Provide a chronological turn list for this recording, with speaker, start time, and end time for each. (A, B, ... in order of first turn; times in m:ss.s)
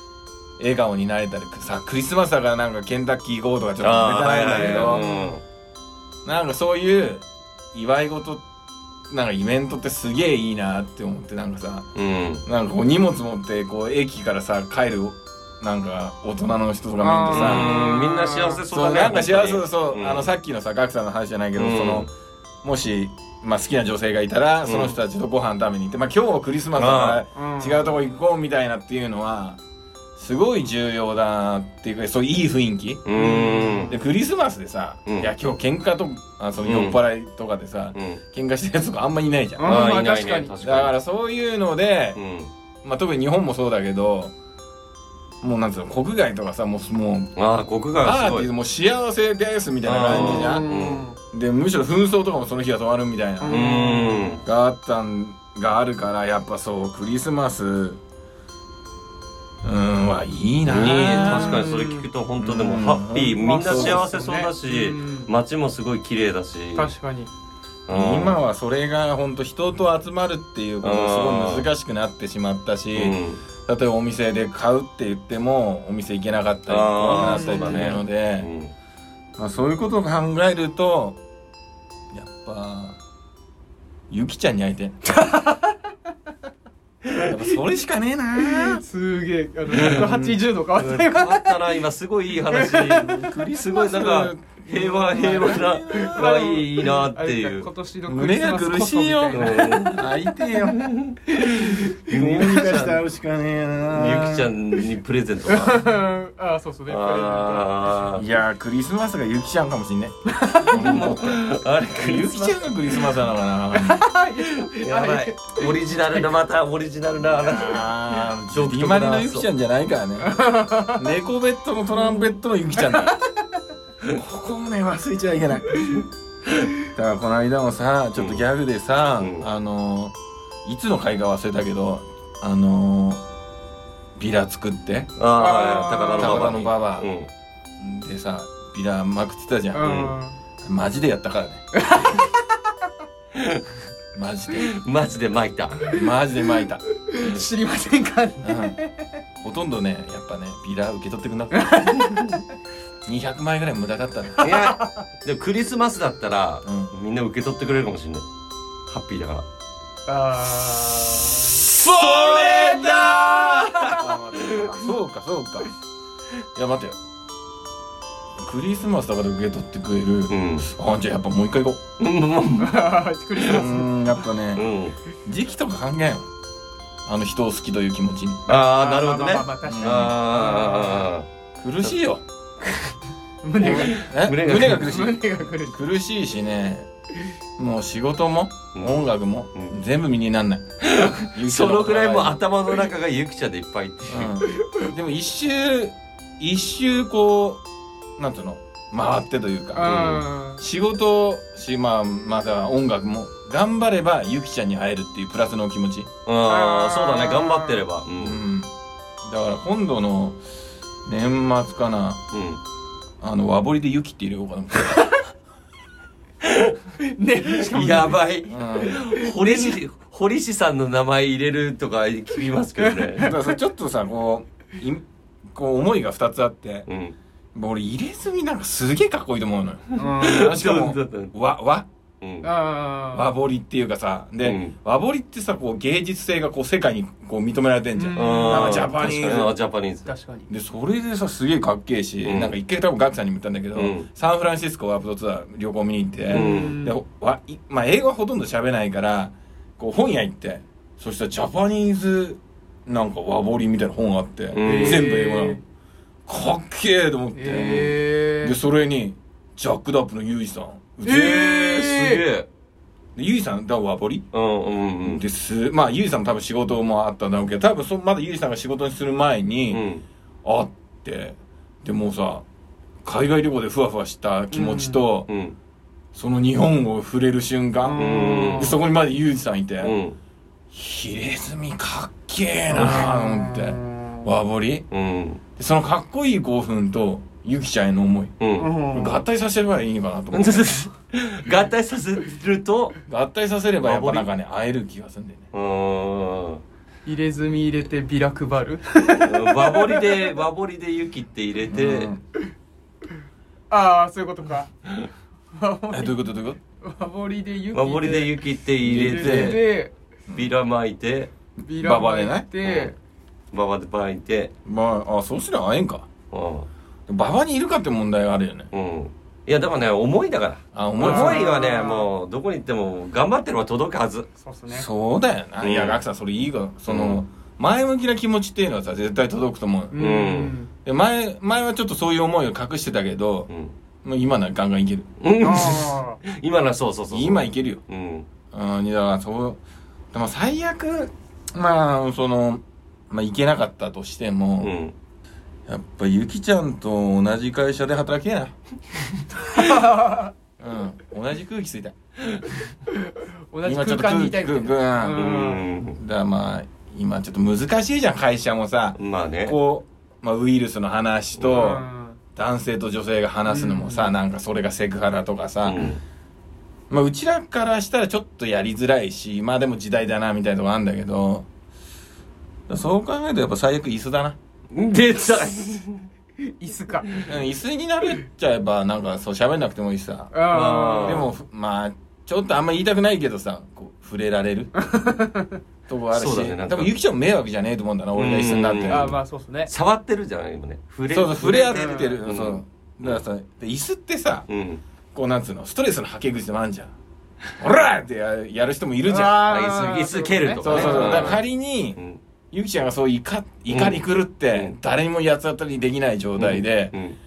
0:00.6-0:05.0 A
0:03.8-0:05.4 B
0:04.5-0:05.4 C
0:06.2-0:08.4 A
0:09.1-0:11.9 A
0:12.0-0:12.4 B
0:12.4-0:17.8 A
0:17.0-0:18.6 C
0:17.3-0:20.3 B
0:18.7-0:22.1 A
0:21.6-0:22.1 B
0:22.6-0:29.6 A
0:24.6-0:25.0 B
0:26.8-0:27.2 B
0:27.3-0:27.9 C
0:30.2-0:33.1 A
0:33.0-0:34.0 B
0:33.1-0:34.0 C
0:33.9-0:39.9 A
0:35.0-0:35.3 B
0:36.6-0:37.0 B
0:38.0-0:38.2 B
0:39.6-0:40.5 C
0:39.6-0:40.9 B
0:40.6-0:42.2 A
0:42.2-0:42.5 B
0:42.8-0:44.3 A
0:45.4-0:47.3 A
0:47.4-0:48.5 B
0:48.0-0:50.7 A
0:49.8-0:51.0 B
0:50.1-0:51.2 C
0:51.3-0:53.7 A
0:53.4-0:54.4 C
0:53.5-0:54.4 B
0:54.4-0:58.0 A
0:59.6-1:01.7 A
1:00.6-1:06.9 B
1:01.0-1:02.0 C
1:02.4-1:04.0 A
1:03.4-1:05.3 C
1:06.8-1:07.3 C
1:07.9-1:08.4 B
1:07.9-1:18.5 A
1:10.8-1:11.7 B
1:12.9-1:13.4 B
1:16.7-1:18.7 B
1:17.1-1:18.0 C
1:19.4-1:21.2 A
1:22.1-1:23.0 A
1:24.1-1:25.0 A
1:25.0-1:25.9 C
1:27.2-1:28.8 A
1:28.4-1:31.7 C
1:29.7-1:30.4 A
1:30.7-1:37.7 B
1:32.5-1:33.2 C
1:33.1-1:36.6 A
1:35.1-1:39.9 C
1:38.1-1:40.9 A
1:39.3-1:40.0 B
1:40.7-1:43.0 B
1:41.3-1:41.9 C
1:42.1-1:44.4 A
1:43.9-1:45.8 B
1:44.0-1:44.4 C
1:45.5-1:48.3 C
1:46.9-1:48.2 B
1:48.2-1:51.4 A
1:50.3-1:51.2 C
1:50.7-1:52.6 B
1:51.9-1:54.0 A
1:53.7-1:56.2 C
1:54.8-1:59.5 B
1:57.4-2:03.1 A
2:00.2-2:01.0 C
2:02.9-2:03.2 C
2:04.0-2:06.1 A
2:06.8-2:13.2 A
2:08.2-2:08.4 B
2:09.2-2:09.4 B
2:14.2-2:15.1 A
2:15.2-2:17.3 B
2:15.4-2:16.5 C
2:16.2-2:17.1 A
2:17.8-2:20.0 A
2:19.7-2:20.4 C
2:19.8-2:20.1 B
2:20.6-2:21.6 A
2:21.7-2:22.5 C
2:23.3-2:23.6 B
2:24.1-2:24.7 A
2:24.7-2:25.8 B
2:25.9-2:27.4 A
2:27.1-2:29.1 C
2:28.4-2:28.8 A
2:29.4-2:31.7 A
2:31.5-2:32.4 C
2:33.0-2:34.5 A
2:34.4-2:38.2 B
2:34.4-2:35.0 C
2:36.6-2:36.9 A
2:38.9-2:39.4 B
2:40.1-2:41.6 C
2:41.4-2:45.7 A
2:42.0-2:43.5 B
2:42.5-2:44.0 C
2:46.6-2:47.0 A
2:48.4-2:51.8 A
2:50.3-2:50.7 B
2:52.0-2:52.8 B
2:52.6-2:54.2 C
2:53.4-2:54.7 A
2:54.5-2:55.0 B
2:55.2-2:56.3 A
2:57.0-2:58.4 A
2:58.5-3:01.2 B
2:58.5-3:01.1 C
2:59.6-3:00.1 A
3:01.6-3:02.2 A
3:02.6-3:02.9 B
3:03.4-3:05.8 C
3:03.6-3:06.9 A
3:03.6-3:04.9 B
3:07.6-3:10.7 A
3:08.7-3:09.0 B
3:10.8-3:14.3 B
3:11.3-3:12.4 A
3:14.1-3:17.6 A
3:14.5-3:14.8 C
3:18.2-3:26.1 A
3:19.7-3:20.6 C
3:19.8-3:20.2 B
3:26.2-3:28.4 B
3:26.5-3:27.8 C
3:28.2-3:28.7 A
3:29.2-3:30.4 A
3:31.0-3:32.2 A
3:32.3-3:32.6 B
3:33.2-3:35.2 A
3:36.4-3:36.7 B
3:37.0-3:38.1 C
3:37.7-3:43.3 B
3:38.5-3:39.0 A
3:39.1-3:39.8 C
3:42.8-3:43.5 C
3:43.2-3:46.8 A
3:46.9-3:47.1 B
3:47.5-3:51.9 A
3:50.0-3:50.6 C
3:50.2-3:51.3 B
3:52.2-3:52.5 B
3:52.4-3:53.3 C
3:53.1-3:59.5 A
3:54.4-3:54.7 B
3:58.0-3:58.8 C
3:58.2-4:00.1 B
4:00.0-4:00.5 C
4:00.5-4:15.6 A
4:02.2-4:02.5 B
4:03.7-4:04.1 B
4:06.3-4:07.0 C
4:06.3-4:06.8 B
4:14.5-4:15.1 B
4:14.6-4:15.6 C
4:16.2-4:21.4 A
4:17.3-4:18.6 C
4:17.5-4:17.9 B
4:21.0-4:22.2 C
4:21.1-4:22.5 B
4:23.2-4:24.2 A
4:24.3-4:25.2 B
4:25.0-4:29.8 A
4:29.7-4:30.0 B
4:30.4-4:32.4 A
4:33.0-4:35.3 A
4:34.5-4:35.0 C
4:35.3-4:35.6 B
4:36.1-4:40.0 A
4:37.8-4:38.8 C
4:38.0-4:38.7 B
4:39.8-4:40.2 B
4:40.7-4:44.8 A
4:42.7-4:44.2 C
4:44.9-4:45.4 B
4:45.6-4:50.7 A
4:48.4-4:48.7 B
4:48.6-4:49.2 C
4:50.3-4:53.0 B
4:53.1-4:55.4 A
4:53.8-4:54.3 B
4:55.5-4:56.6 B
4:57.0-5:00.2 C
4:59.1-5:02.1 B
5:01.7-5:02.2 A
5:03.7-5:04.7 C
5:05.5-5:06.1 C
5:05.9-5:06.6 A
5:06.8-5:08.4 C
5:07.7-5:09.6 B
5:08.8-5:09.6 A
5:08.9-5:09.9 C
5:10.3-5:11.3 B
5:11.6-5:13.0 C
5:11.8-5:12.5 A
5:12.6-5:12.9 B
5:13.5-5:14.5 B
5:14.6-5:16.1 A
5:16.3-5:16.7 B
5:17.1-5:18.7 A
5:18.7-5:24.3 B
5:20.7-5:21.4 A
5:21.0-5:22.1 C
5:24.4-5:24.9 C
5:24.7-5:30.0 A
5:25.6-5:26.0 B
5:26.9-5:27.2 B
5:29.9-5:30.7 C
5:30.0-5:30.5 B
5:30.8-5:33.5 A
5:33.5-5:33.7 B
5:34.0-5:35.1 A
5:35.2-5:38.3 B
5:35.4-5:36.2 C
5:37.1-5:37.8 A
5:38.5-5:39.6 A
5:40.1-5:44.7 A
5:44.6-5:44.9 B
5:45.7-5:48.5 A
5:49.4-5:50.3 C
5:50.6-5:52.0 A
5:52.9-5:55.6 C
5:53.6-5:55.3 A
5:55.2-5:56.0 B
5:55.9-6:01.8 A
5:59.0-5:59.6 B
6:01.5-6:02.2 C
6:02.4-6:05.8 A
6:03.5-6:04.1 C
6:05.6-6:06.0 B
6:06.9-6:11.5 A
6:12.7-6:14.4 A
6:14.7-6:16.0 B
6:16.6-6:17.2 C
6:17.2-6:20.3 A
6:20.3-6:21.2 C
6:20.5-6:21.3 B
6:21.0-6:24.7 A
6:24.8-6:25.6 C
6:25.9-6:29.2 A
6:26.1-6:26.9 B
6:28.1-6:33.2 B
6:28.9-6:29.7 C
6:31.1-6:34.5 A
6:31.4-6:32.2 C
6:34.5-6:34.8 B
6:35.1-6:36.9 A
6:37.6-6:39.4 A
6:39.0-6:41.4 C
6:39.3-6:41.4 B
6:40.6-6:42.0 A
6:42.5-6:46.9 A
6:43.7-6:44.7 B
6:46.4-6:47.2 B